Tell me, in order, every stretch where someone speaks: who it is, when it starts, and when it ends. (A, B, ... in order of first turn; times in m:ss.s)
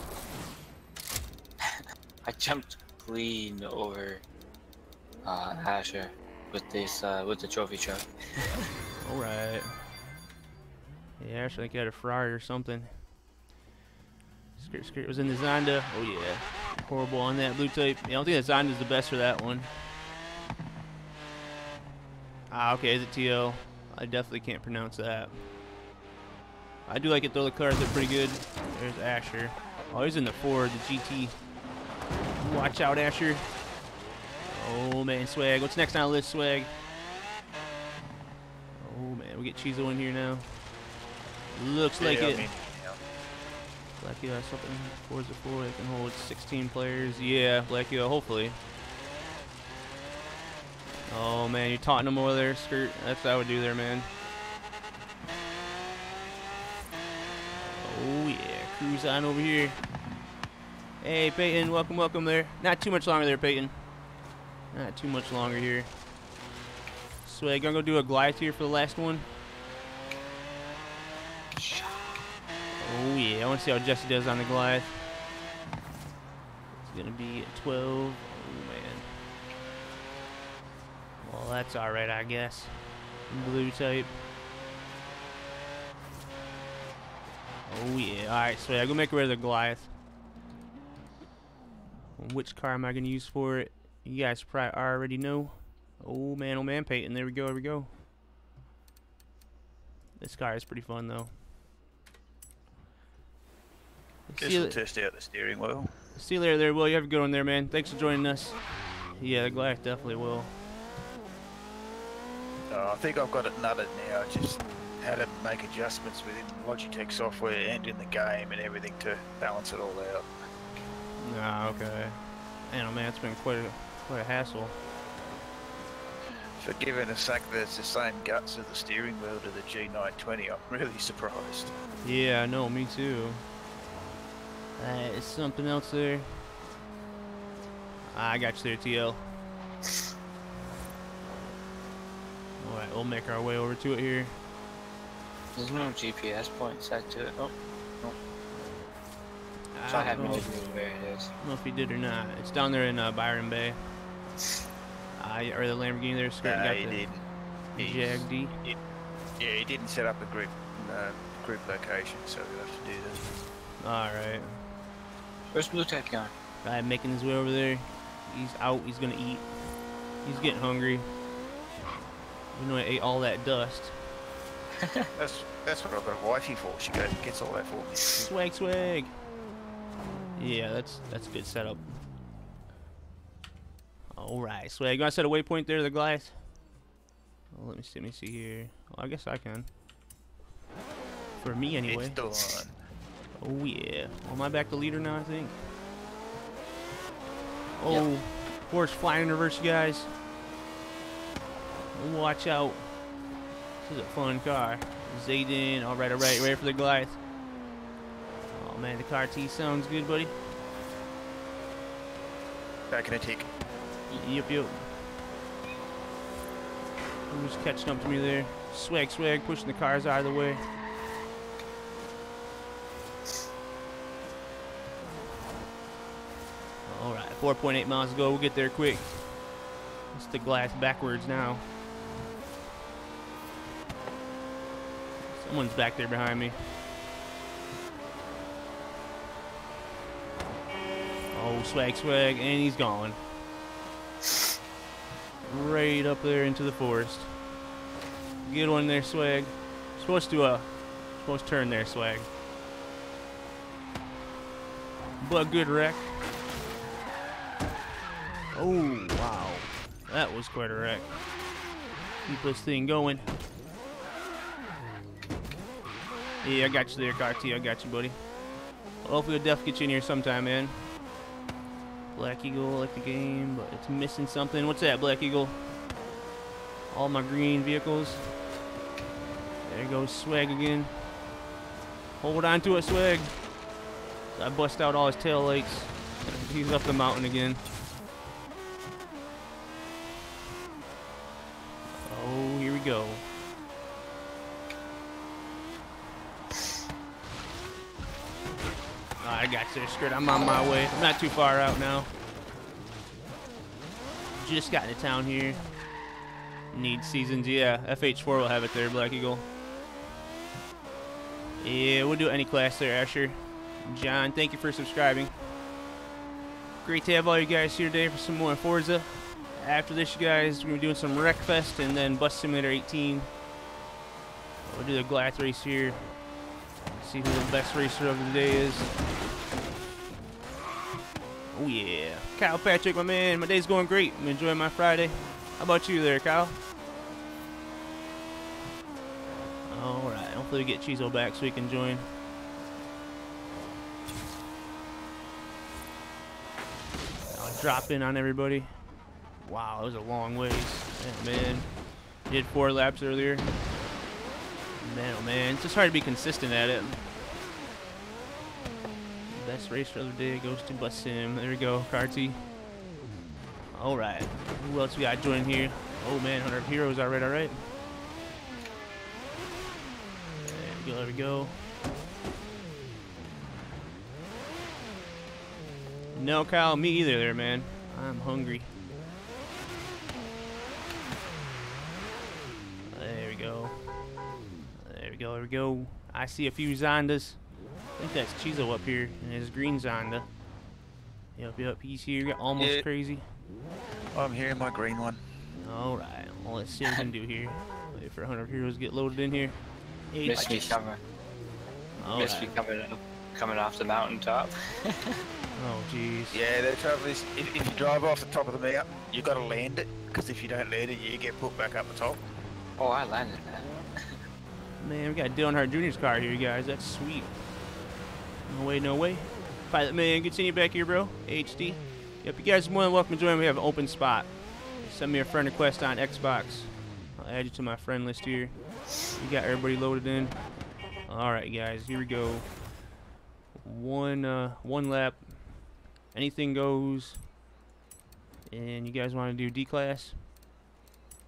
0:01.6-0:04.2 A
0:05.2-0:08.7 A
0:09.0-0:09.8 B
0:11.2-0:13.0 B
0:14.6-0:19.7 B
0:22.5-0:25.4 B
0:26.9-0:31.4 B
0:32.4-0:33.5 B
0:34.4-0:36.7 B
0:38.8-0:40.7 B
0:41.5-0:42.5 B
0:42.0-0:43.0 C
0:44.0-0:48.6 B
0:51.1-0:54.1 B
0:57.6-0:59.8 B
1:01.0-1:03.8 B
1:04.7-1:05.9 B
1:07.2-1:09.3 B
1:11.6-1:12.2 A
1:12.8-1:15.1 B
1:16.8-1:19.2 B
1:21.2-1:24.1 B
1:27.7-1:29.9 B
1:32.2-1:37.9 B
1:40.2-1:41.3 B
1:44.3-1:44.8 B
1:44.4-1:45.9 C
1:46.2-1:50.6 B
1:52.7-2:00.3 C
2:01.2-2:04.8 B
2:06.6-2:11.7 C
2:12.0-2:13.4 B
2:14.8-2:16.5 B
2:18.1-2:19.3 B
2:22.6-2:24.4 B
2:25.6-2:28.2 A
2:29.7-2:30.5 B
2:29.9-2:31.3 A
2:31.4-2:33.8 B
2:35.2-2:37.0 B
2:36.4-2:38.8 C
2:37.8-2:38.6 B
2:39.4-2:43.3 C
2:43.8-2:44.6 B
2:45.5-2:46.3 A
2:46.6-2:51.1 B
2:52.5-2:54.0 B
2:55.2-2:58.3 C
2:58.2-2:59.2 B
3:00.4-3:02.0 B
3:04.2-3:06.4 B
3:07.5-3:09.7 B
3:11.4-3:12.2 B
3:11.9-3:12.8 C
3:13.4-3:15.7 B
3:17.8-3:20.1 B
3:21.9-3:22.9 B
3:23.8-3:27.2 B
3:28.5-3:30.4 B
3:32.9-3:33.5 C
3:34.2-3:34.9 B
3:37.3-3:40.7 B
3:46.8-3:49.4 B
3:50.1-3:51.7 B
3:55.3-3:56.8 B
4:01.3-4:03.2 B
4:05.4-4:07.4 B
4:08.4-4:12.3 B
4:15.2-4:16.2 B
4:18.5-4:21.1 B
4:22.2-4:23.3 B
4:26.4-4:28.2 B
4:29.0-4:30.9 B
4:32.1-4:35.6 B
4:36.9-4:38.3 B
4:39.6-4:41.1 B
4:42.2-4:43.4 B
4:44.3-4:47.7 B
4:52.0-4:53.2 B
4:59.2-5:02.2 B
5:04.4-5:05.7 B
5:06.7-5:09.5 B
5:11.6-5:15.3 B
5:16.8-5:23.3 B
5:24.7-5:26.1 B
5:27.0-5:28.9 B
5:31.5-5:36.6 B
5:39.7-5:42.1 B
5:47.3-5:51.7 B
5:52.2-5:53.7 B
5:54.8-5:57.2 B
5:59.3-6:02.4 B
6:03.7-6:07.7 B
6:10.4-6:11.7 B
6:16.1-6:18.7 B
6:22.9-6:23.8 B
6:24.8-6:27.4 B
6:28.0-6:30.3 B
6:31.4-6:33.3 B
6:32.6-6:32.9 C
6:34.1-6:35.2 C
6:35.6-6:39.6 B
6:40.1-6:40.8 B
6:40.2-6:41.0 A
6:42.0-6:42.6 B
6:42.2-6:45.2 A
6:45.6-6:46.4 B
6:46.3-6:52.2 C
6:52.8-6:54.2 A
6:54.8-6:57.4 B
6:58.4-7:10.5 B
7:11.0-7:12.5 B
7:13.6-7:17.2 B
7:18.5-7:20.2 B